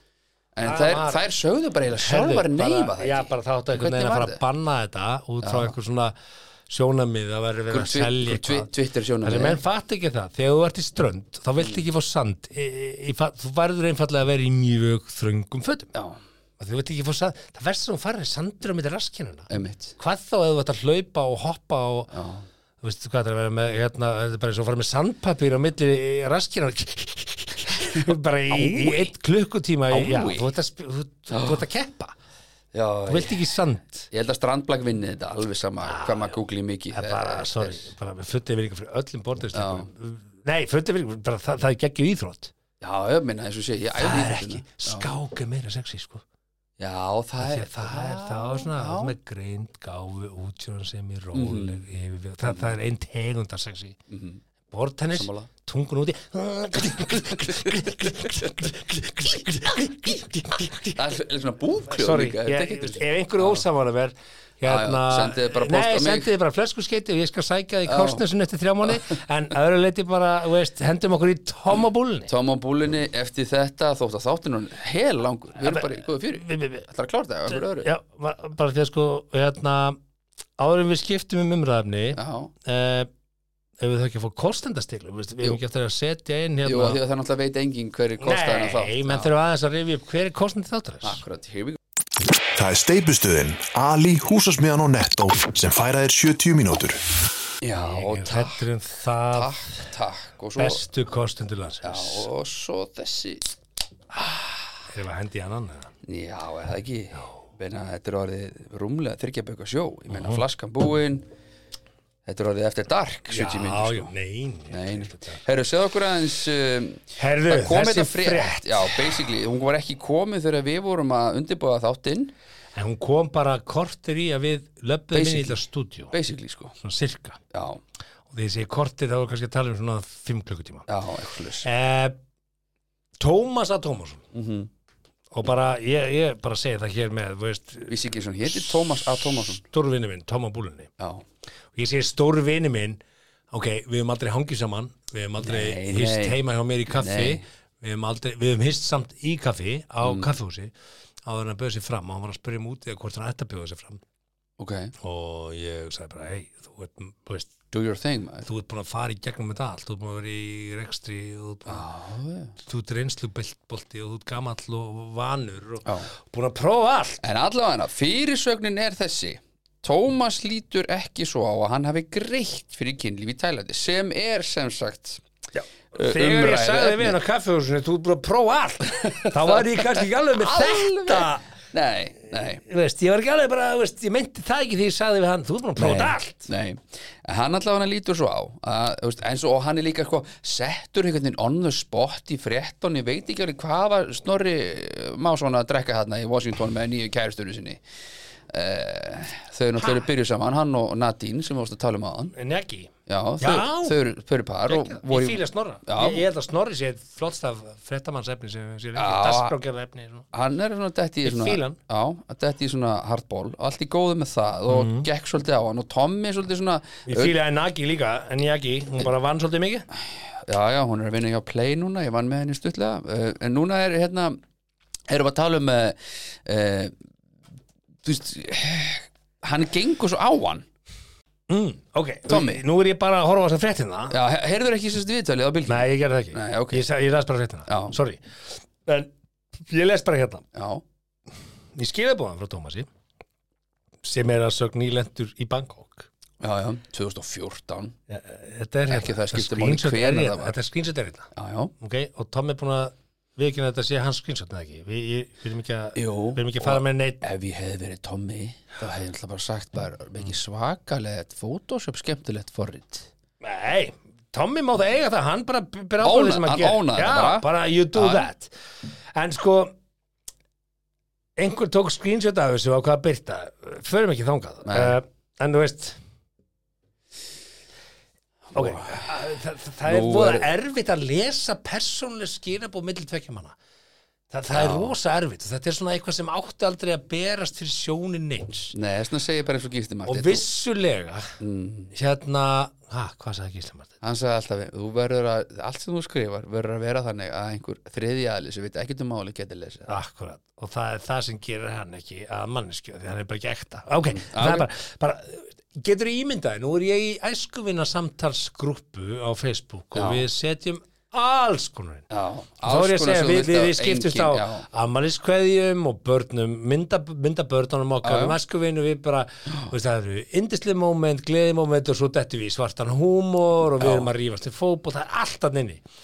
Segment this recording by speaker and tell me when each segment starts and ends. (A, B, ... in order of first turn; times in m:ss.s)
0:00.5-0:04.4 A
0:00.6-0:01.2 B
0:01.9-0:06.1 B
0:05.4-0:05.7 A
0:06.7-0:08.7 B
0:07.7-0:09.6 A
0:09.2-0:15.9 B
0:11.6-0:11.8 A
0:15.9-0:16.2 A
0:16.6-0:22.1 B
0:19.5-0:19.9 A
0:22.1-0:22.4 A
0:22.8-0:32.2 B
0:27.9-0:29.1 A
0:29.9-0:30.5 A
0:31.3-0:31.6 A
0:32.7-0:33.4 A
0:33.1-0:34.1 B
0:34.1-0:37.8 A
0:35.8-0:36.3 B
0:36.9-0:42.5 B
0:39.5-0:39.9 A
0:42.8-0:45.1 A
0:44.0-0:46.2 B
0:46.8-0:49.2 A
0:47.4-0:54.0 B
0:51.3-0:51.8 A
0:52.4-0:52.8 A
0:54.1-0:54.4 A
0:54.7-1:01.0 B
0:55.2-0:55.5 A
0:57.1-0:58.5 A
1:00.9-1:03.6 A
1:01.9-1:12.3 B
1:04.6-1:06.3 A
1:07.8-1:08.2 A
1:12.3-1:17.9 A
1:15.6-1:16.9 B
1:17.5-1:20.0 B
1:20.6-1:23.1 B
1:22.2-1:22.5 A
1:23.8-1:27.0 B
1:26.6-1:29.3 A
1:28.2-1:31.2 B
1:31.0-1:31.8 A
1:32.5-1:37.0 C
1:37.6-1:38.6 A
1:37.8-1:39.9 B
1:39.3-1:40.8 A
1:40.6-1:42.3 B
1:41.8-1:43.5 A
1:44.2-1:44.5 A
1:44.9-1:45.9 B
1:46.0-1:51.2 A
1:50.1-1:50.4 B
1:52.2-1:54.1 A
1:53.3-1:55.4 B
1:54.7-2:02.3 A
1:57.2-1:59.1 B
2:02.7-2:06.1 B
2:05.1-2:05.6 A
2:06.1-2:06.8 A
2:06.8-2:07.4 B
2:07.5-2:07.8 A
2:08.3-2:10.9 B
2:10.9-2:11.7 A
2:11.6-2:12.2 B
2:13.2-2:14.2 B
2:14.3-2:14.7 A
2:15.3-2:20.9 B
2:17.9-2:19.6 A
2:21.0-2:21.2 A
2:21.7-2:23.0 B
2:23.5-2:30.7 B
2:25.4-2:26.4 A
2:26.9-2:27.4 A
2:30.0-2:30.3 A
2:31.2-2:34.0 B
2:34.6-2:34.9 A
2:35.0-2:37.6 B
2:37.7-2:38.5 A
2:38.4-2:41.8 B
2:41.6-2:42.5 A
2:42.6-2:47.2 B
2:47.2-2:55.2 A
2:55.5-3:01.4 B
2:55.9-2:57.2 A
2:59.0-3:02.6 A
3:02.6-3:06.5 B
3:05.8-3:17.8 A
3:18.5-3:22.3 A
3:22.3-3:24.0 B
3:23.1-3:26.2 A
3:24.7-3:30.3 B
3:29.0-3:29.5 A
3:30.3-3:37.3 A
3:31.2-3:31.8 B
3:34.7-3:35.1 B
3:37.0-3:39.9 B
3:40.3-3:44.4 A
3:45.1-3:46.9 A
3:48.0-3:50.6 A
3:51.5-3:54.2 B
3:52.3-3:52.6 A
3:54.1-3:56.8 A
3:55.7-3:58.2 B
3:57.7-3:57.9 A
3:58.8-3:59.1 B
3:59.6-4:00.4 B
4:00.5-4:00.8 A
4:01.7-4:02.9 B
4:04.0-4:06.1 B
4:06.4-4:08.0 A
4:08.1-4:17.2 B
4:08.9-4:10.6 A
4:11.3-4:11.7 A
4:15.9-4:23.1 A
4:23.4-4:28.5 B
4:26.0-4:28.3 A
4:29.1-4:29.7 B
4:31.4-4:36.0 B
4:34.6-4:35.0 A
4:38.5-4:39.0 A
4:38.5-4:43.6 B
4:39.8-4:40.5 A
4:44.3-4:48.7 B
4:44.5-4:44.9 A
4:48.7-4:50.4 A
4:50.1-4:51.3 B
4:51.4-4:51.9 A
4:51.9-4:53.9 B
4:54.0-4:59.9 A
4:59.9-5:12.1 B
5:04.1-5:04.7 A
5:09.9-5:10.3 A
5:12.1-5:14.6 A
5:12.6-5:25.8 B
5:18.0-5:18.4 A
5:23.8-5:24.1 A